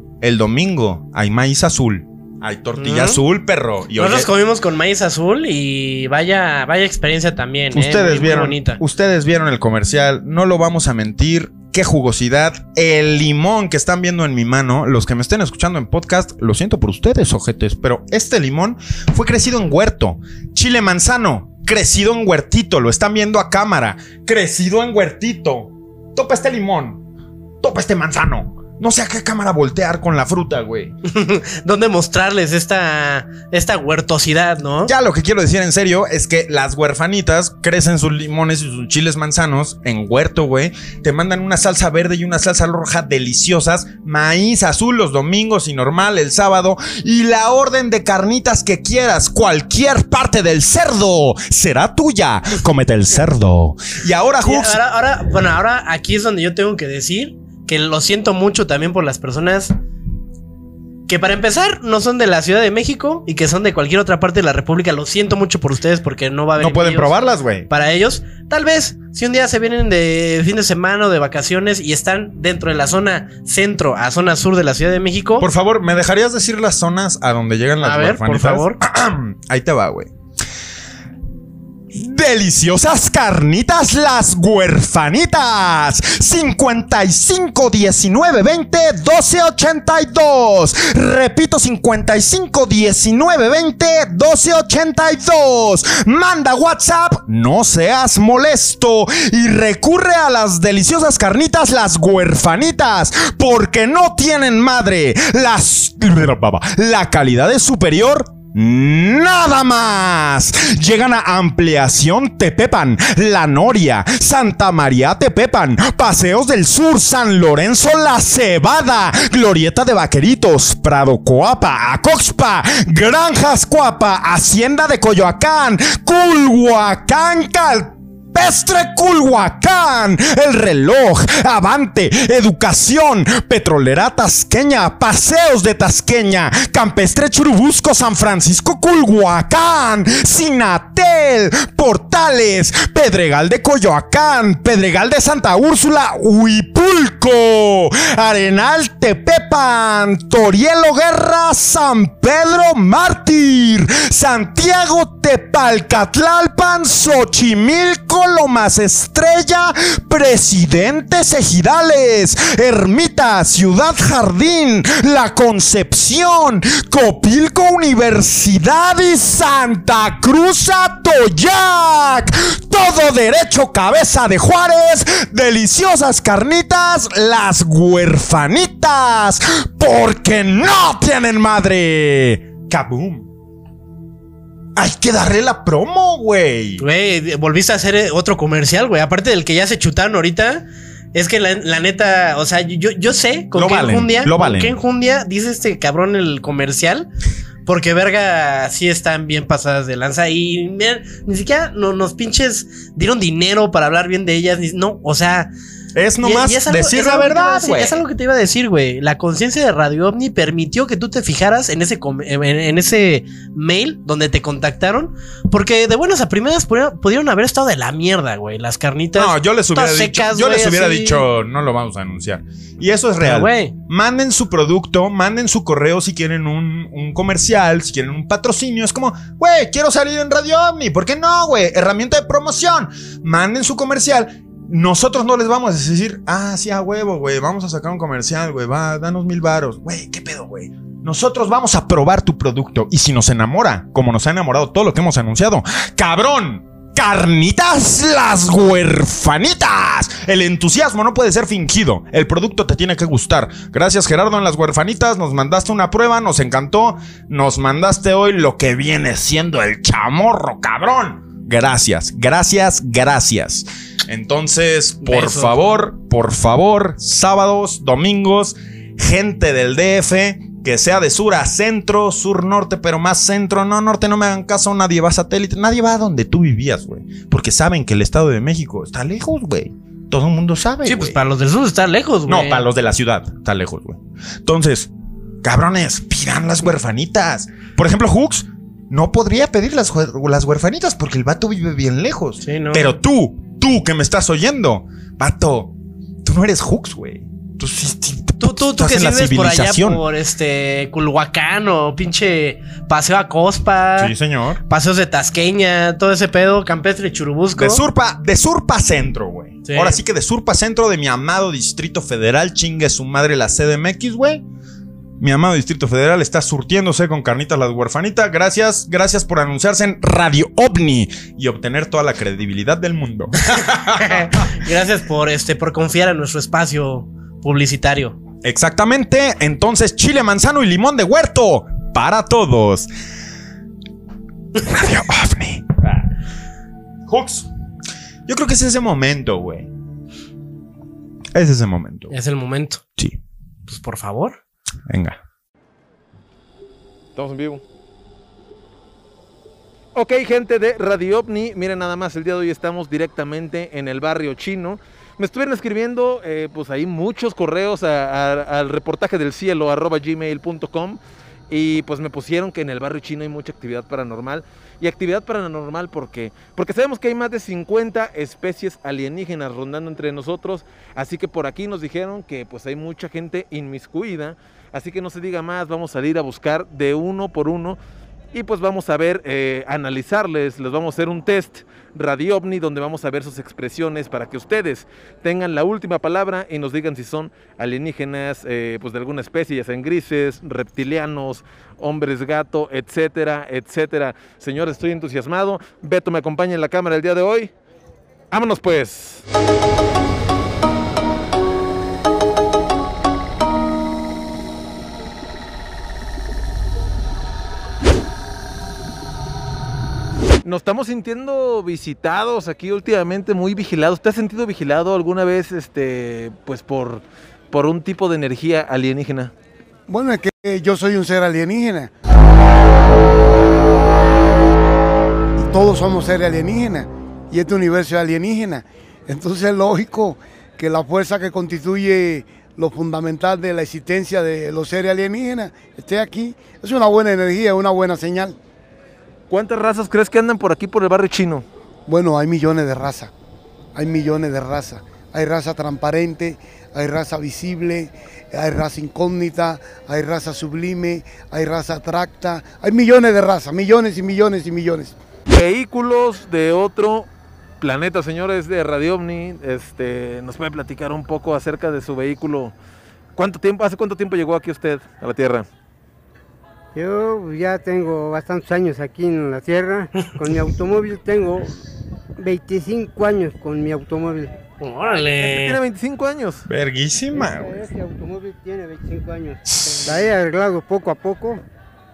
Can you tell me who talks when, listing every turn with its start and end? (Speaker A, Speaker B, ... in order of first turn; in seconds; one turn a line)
Speaker A: 0.2-4.3
Speaker B: 2.8-3.2
Speaker B: 4.0-8.8
Speaker A: 7.7-27.0
Speaker A: 27.6-30.9
Speaker B: 31.1-34.9
Speaker A: 34.9-54.8
Speaker B: 54.4-59.7
Speaker B: 61.1-67.1
Speaker A: 66.6-67.7
Speaker B: 67.7-75.5
Speaker A: 75.4-80.1
Speaker B: 77.8-78.8
Speaker A: 81.9-183.3
Speaker A: 184.8-186.8
Speaker B: 186.8-197.1
Speaker A: 193.6-194.8
Speaker B: 197.7-205.5
Speaker A: 205.9-208.0
Speaker B: 206.2-221.2
Speaker A: 219.2-281.2
Speaker B: 223.2-223.7
Speaker B: 265.0-265.8
Speaker B: 280.9-282.6
Speaker A: 282.3-284.9
Speaker A: 285.4-295.7
Speaker B: 292.4-292.9
Speaker A: 296.2-300.0
Speaker B: 298.4-304.1
Speaker A: 304.0-304.6
Speaker B: 304.7-307.8
Speaker A: 307.6-314.4
Speaker B: 309.6-310.0
Speaker A: 315.2-324.4
Speaker B: 323.9-328.2
Speaker A: 328.4-332.9
Speaker A: 334.6-336.1
Speaker A: 337.1-337.5
Speaker A: 338.3-339.7
Speaker A: 341.4-342.1
Speaker B: 342.1-342.8
Speaker B: 343.7-344.4
Speaker A: 344.9-345.2
Speaker C: 347.2-347.6
Speaker C: 349.9-377.8
Speaker C: 378.3-397.5
Speaker C: 398.3-399.2
Speaker C: 410.4-419.3
Speaker D: 419.9-421.9
Speaker D: 425.4-438.4
Speaker C: 439.3-441.4
Speaker D: 441.9-443.1
Speaker D: 443.8-454.9
Speaker C: 455.3-457.1
Speaker C: 457.6-462.6
Speaker C: 463.2-465.4
Speaker E: 466.7-471.6
Speaker E: 472.2-474.4
Speaker B: 474.6-475.6
Speaker C: 475.1-476.4
Speaker A: 476.5-477.7
Speaker E: 477.1-481.4
Speaker A: 479.7-479.9